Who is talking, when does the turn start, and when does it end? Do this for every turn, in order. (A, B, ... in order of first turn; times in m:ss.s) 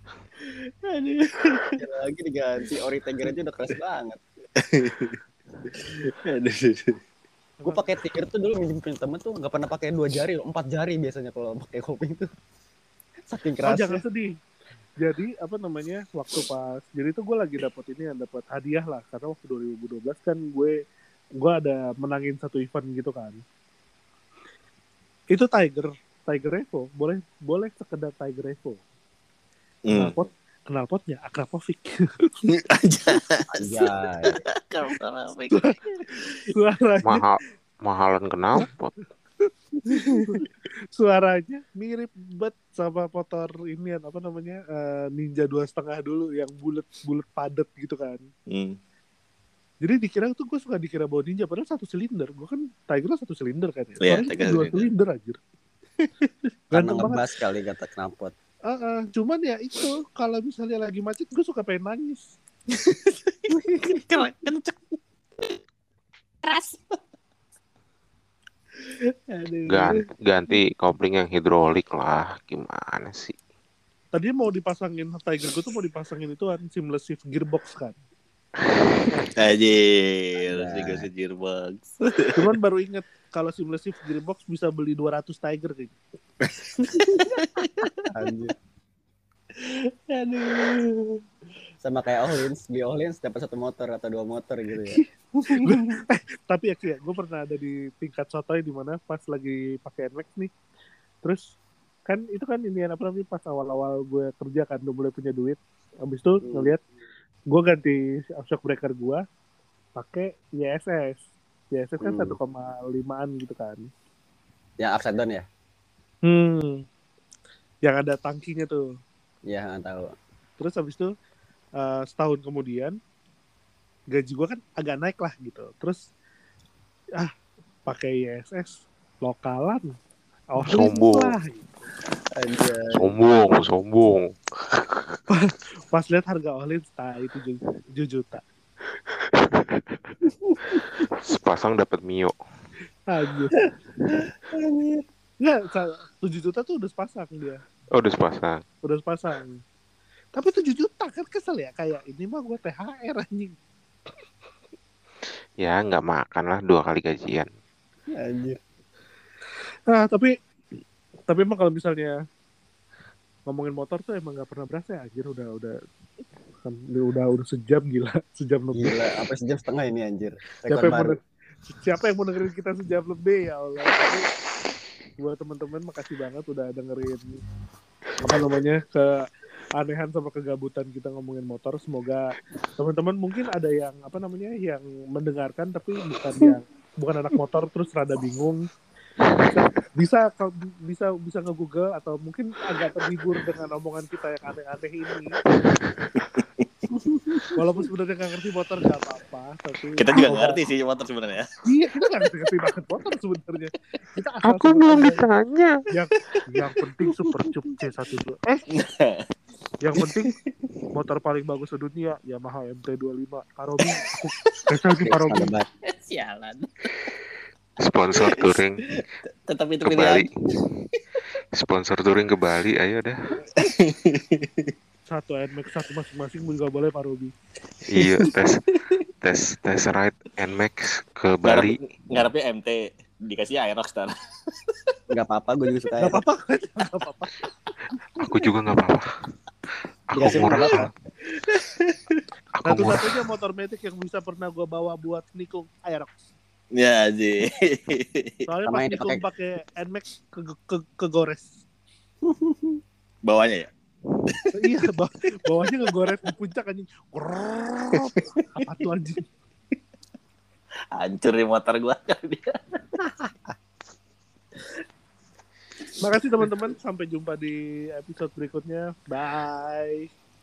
0:00.4-0:01.8 A
0:01.8-0:04.2 B
0:04.6-0:05.2 A
0:05.7-0:07.0 A
0:07.7-0:12.3 B
0:13.3-0:14.0 B
0:13.6-0:14.3 C
0:15.0-0:20.7 C
0:21.4-0:23.4 C
0:25.3-0:28.8 C
0:29.8-0:30.2 A
0:29.9-0:32.3 C
0:32.5-0:36.0 A
0:33.5-0:34.4 B
0:35.5-0:35.8 C
0:36.5-0:37.2 C
0:37.0-0:38.9 D
0:39.8-0:48.2 C
0:48.5-0:48.8 A
0:49.8-0:55.4 C
0:54.0-0:54.9 A
0:56.7-0:57.2 C
0:56.7-0:58.3 B
0:58.7-1:02.3 C
1:02.7-1:05.6 A
1:06.4-1:07.0 A
1:08.8-1:10.0 A
1:09.7-1:13.4 D
1:14.1-1:18.0 C
1:19.3-1:22.3 A
1:20.5-1:21.1 B
1:22.3-1:26.0 C
1:26.4-1:27.9 A
1:28.1-1:28.5 B
1:29.6-1:31.2 A
1:31.8-1:35.0 B
1:35.4-1:40.5 C
1:42.1-1:46.8 C
1:46.4-1:46.7 B
1:47.5-1:49.2 C
1:50.0-1:53.9 C
1:52.0-1:52.4 B
1:54.8-1:55.4 B
1:56.2-1:56.8 C
1:57.8-1:58.9 C
1:59.5-2:00.1 B
2:00.6-2:01.1 C
2:01.8-2:03.0 C
2:04.1-2:06.0 C
2:07.9-2:09.9 C
2:10.5-2:11.8 C
2:10.6-2:11.3 D
2:12.4-2:13.1 B
2:12.9-2:15.2 D
2:15.3-2:18.4 C
2:19.1-2:20.1 D
2:20.2-2:20.9 B
2:21.0-2:22.3 D
2:23.1-2:23.6 C
2:24.2-2:25.0 B
2:25.4-2:27.6 C
2:27.9-2:28.6 D
2:28.8-2:29.6 C
2:30.3-2:33.5 C
2:35.6-2:37.5 D
2:38.1-2:38.6 B
2:39.9-2:40.3 C
2:41.3-2:42.1 C
2:43.5-2:45.7 C
2:46.6-2:49.0 C
2:48.7-2:51.2 B
2:50.7-2:54.2 C
2:55.2-2:57.2 C
2:58.2-2:59.2 C
2:59.8-3:08.6 C
3:09.4-3:15.4 C
3:16.0-3:16.7 A
3:16.9-3:17.5 B
3:17.5-3:20.6 C
3:20.0-3:21.5 A
3:21.6-3:25.3 C
3:24.4-3:25.8 D
3:25.9-3:28.6 C
3:28.7-3:29.2 A
3:29.8-3:30.3 C
3:30.0-3:30.5 A
3:30.9-3:35.5 C
3:35.0-3:35.7 B
3:35.9-3:37.1 A
3:37.8-3:38.9 D
3:38.1-3:40.6 A
3:39.8-3:40.3 D
3:41.6-3:43.4 D
3:43.6-3:44.7 A
3:45.1-3:47.3 C
3:47.9-3:48.6 D
3:48.0-3:48.3 A
3:49.2-3:51.8 D
3:51.4-3:54.1 A
3:55.1-3:56.2 B
3:56.0-3:57.3 C
3:58.2-3:59.0 D
4:00.1-4:00.9 D
4:00.1-4:00.9 B
4:00.3-4:00.6 A
4:00.4-4:00.8 C
4:01.3-4:02.2 A
4:02.6-4:03.1 D
4:02.6-4:06.3 C
4:06.7-4:08.4 A
4:08.5-4:11.6 C
4:08.7-4:09.2 B
4:12.2-4:12.8 B
4:13.2-4:13.7 A
4:14.5-4:19.2 C
4:20.9-4:23.3 A
4:26.0-4:30.1 C